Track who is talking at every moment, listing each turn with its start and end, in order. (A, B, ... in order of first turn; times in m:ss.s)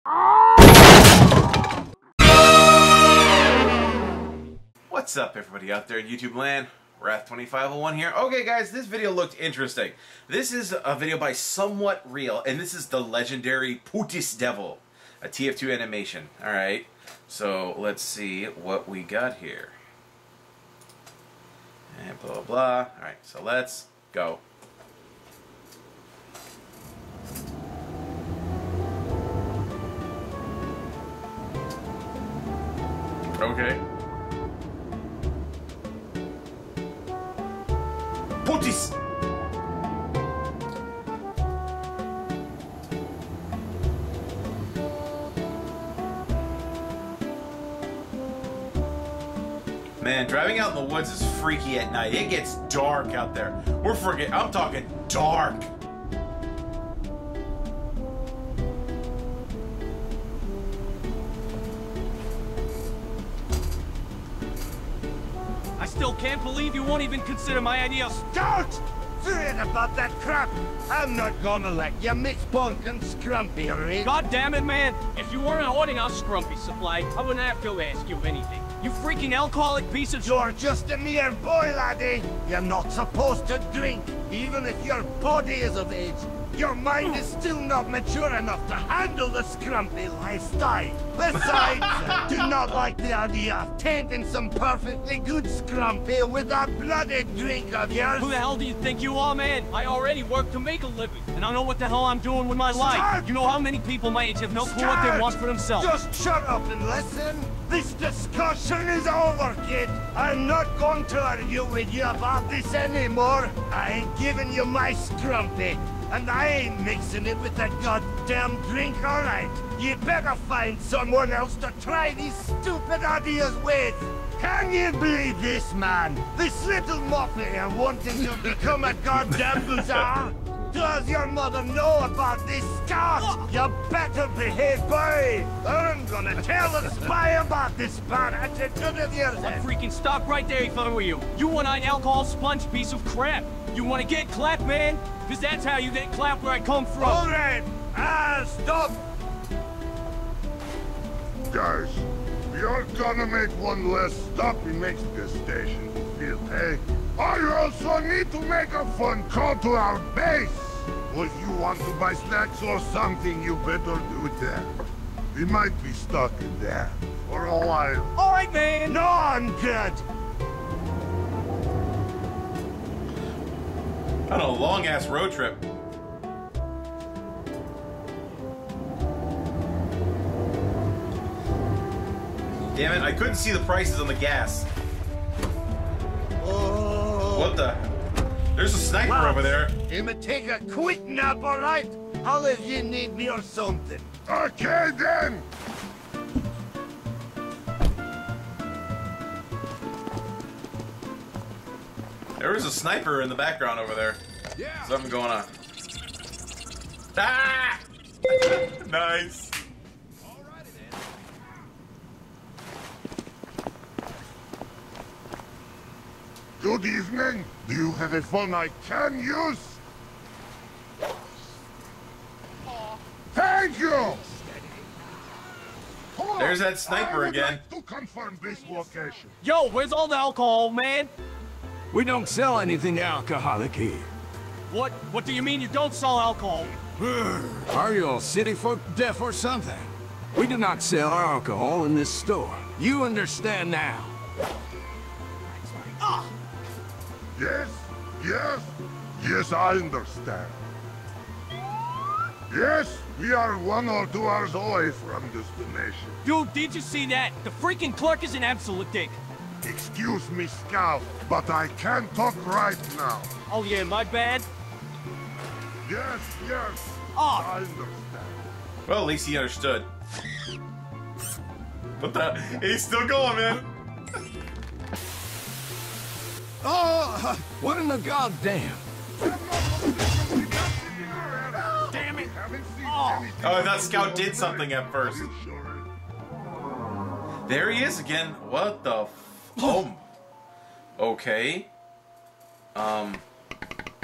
0:04.9-0:19.8 A
0:21.9-0:24.4 A
0:33.4-0:33.8 A
0:38.4-0:38.9 A
0:50.0-0:55.7 A
1:05.8-1:08.2 B
1:08.1-1:14.1 C
1:14.0-1:20.4 B
1:20.2-1:38.4 C
1:31.3-1:32.2 A
1:38.2-1:45.9 B
1:42.7-1:43.3 C
1:44.6-2:19.6 C
2:13.2-2:13.5 B
2:19.4-2:27.2 B
2:27.0-2:29.0 C
2:31.5-2:44.7 D
2:45.3-2:48.1 D
2:48.2-2:49.0 B
2:48.8-2:50.0 C
2:54.3-2:55.6 A
3:02.7-3:04.7 A
3:06.4-3:07.5 C
3:07.3-3:07.9 A
3:08.5-3:09.7 A
3:09.0-3:14.1 C
3:14.2-3:15.4 D
3:22.4-3:24.2 A
3:24.6-3:24.9 E
3:24.8-3:25.5 A
3:27.1-3:29.5 A
3:36.6-3:39.8 D
3:43.3-3:44.2 D
3:46.1-3:49.3 D
3:46.4-3:47.6 A
3:49.4-3:51.1 B
3:51.9-3:54.1 E
3:54.7-3:56.7 B
3:57.0-4:04.2 E
4:06.0-4:06.3 B
4:07.3-4:10.6 D
4:12.5-4:16.2 D
4:16.2-4:19.2 B
4:19.6-4:23.3 D
4:23.5-4:24.4 B
4:25.8-4:28.4 D
4:27.1-4:27.5 B
4:28.9-4:29.9 A
4:32.0-4:33.7 A
4:36.6-4:38.8 E
4:39.2-4:45.9 D
4:42.8-4:43.4 B
4:43.4-4:45.3 A
4:47.5-4:50.0 A
4:51.0-4:51.7 A
4:52.7-4:53.2 A